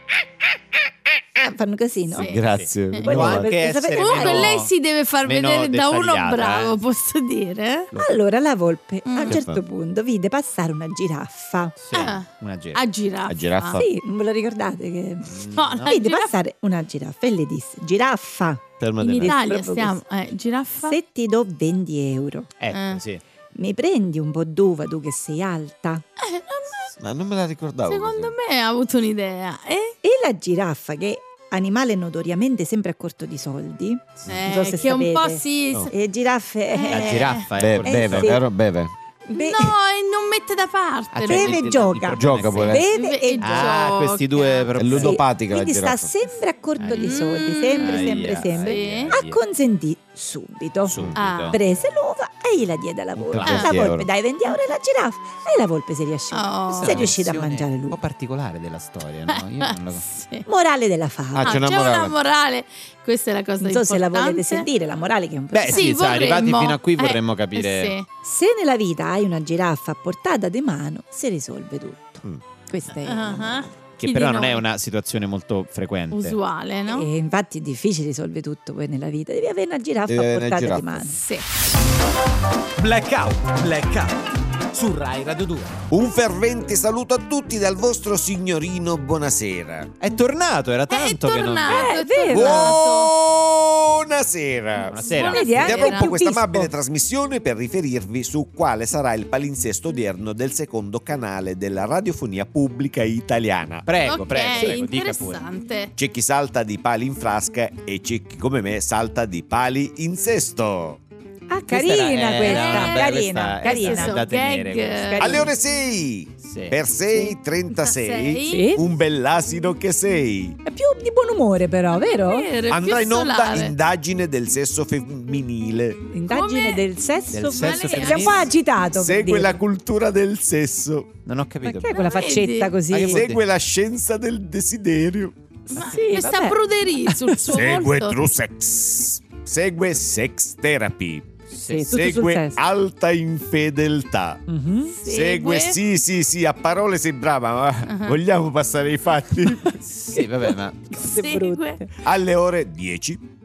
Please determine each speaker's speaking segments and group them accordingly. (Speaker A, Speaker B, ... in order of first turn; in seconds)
Speaker A: 1.4-2.4, 3.0-4.5, 7.9-11.8, 13.7-20.0, 20.8-22.5, 23.5-26.0, 30.0-38.4, 39.2-39.7, 41.2-43.9, 44.9-51.0, 51.5-58.0, 60.5-61.6, 63.6-65.9, 68.2-73.7, 76.9-81.2, 91.6-92.8, 95.1-96.7, 111.5-114.2, 115.0-115.5, 118.5-118.8, 120.6-122.5, 126.1-129.6, 131.6-133.2, 135.7-137.4, 141.6-142.6, 144.5-144.9, 150.9-151.9
Speaker B: 2.1-2.4, 2.9-3.2, 3.9-7.9, 9.1-9.4, 11.9-13.8, 15.5-16.3, 19.0-21.0, 22.7-23.0, 26.2-26.9, 27.9-29.9, 34.3-35.9, 36.7-37.5, 39.3-41.7, 42.9-44.7, 46.9-49.2, 51.1-51.6, 53.4-53.8, 56.3-57.1, 59.3-60.5, 61.4-64.7, 65.7-68.1, 73.0-74.6, 76.1-77.1, 81.0-81.5, 90.9-93.1, 95.0-96.2, 104.0-105.9, 112.4-115.4, 117.7-118.8, 121.9-123.7, 126.3-128.5, 131.9-132.8, 135.7-138.2, 144.8-145.8, 147.9-148.2, 151.0-151.8
Speaker C: 2.1-3.5, 9.3-9.6, 13.3-13.8, 18.8-19.3, 27.0-28.3, 37.5-38.9, 42.1-42.9, 44.8-46.1, 50.9-51.2, 61.3-62.1, 80.1-80.8, 85.9-89.9, 92.3-103.9, 106.0-111.0, 115.2-120.6, 122.7-126.1, 128.9-131.1, 132.9-135.3, 137.5-141.3, 141.9-144.4, 145.0-149.8, 152.0-153.2
Speaker D: 2.4-4.7, 5.2-6.7, 11.8-12.8, 15.3-15.9, 22.6-23.2, 36.9-38.4, 41.1-42.9, 43.4-45.2, 46.8-47.2, 47.8-49.4, 50.8-51.6, 53.1-54.1, 56.7-60.0, 65.5-67.9, 74.0-76.4, 90.0-92.0, 94.9-95.9, 103.8-105.4, 111.7-115.4, 116.4-116.8, 127.3-128.5, 131.2-132.1, 132.9-133.4, 141.5-141.9, 149.8-150.9
Speaker E: 82.8-84.2, 84.7-85.8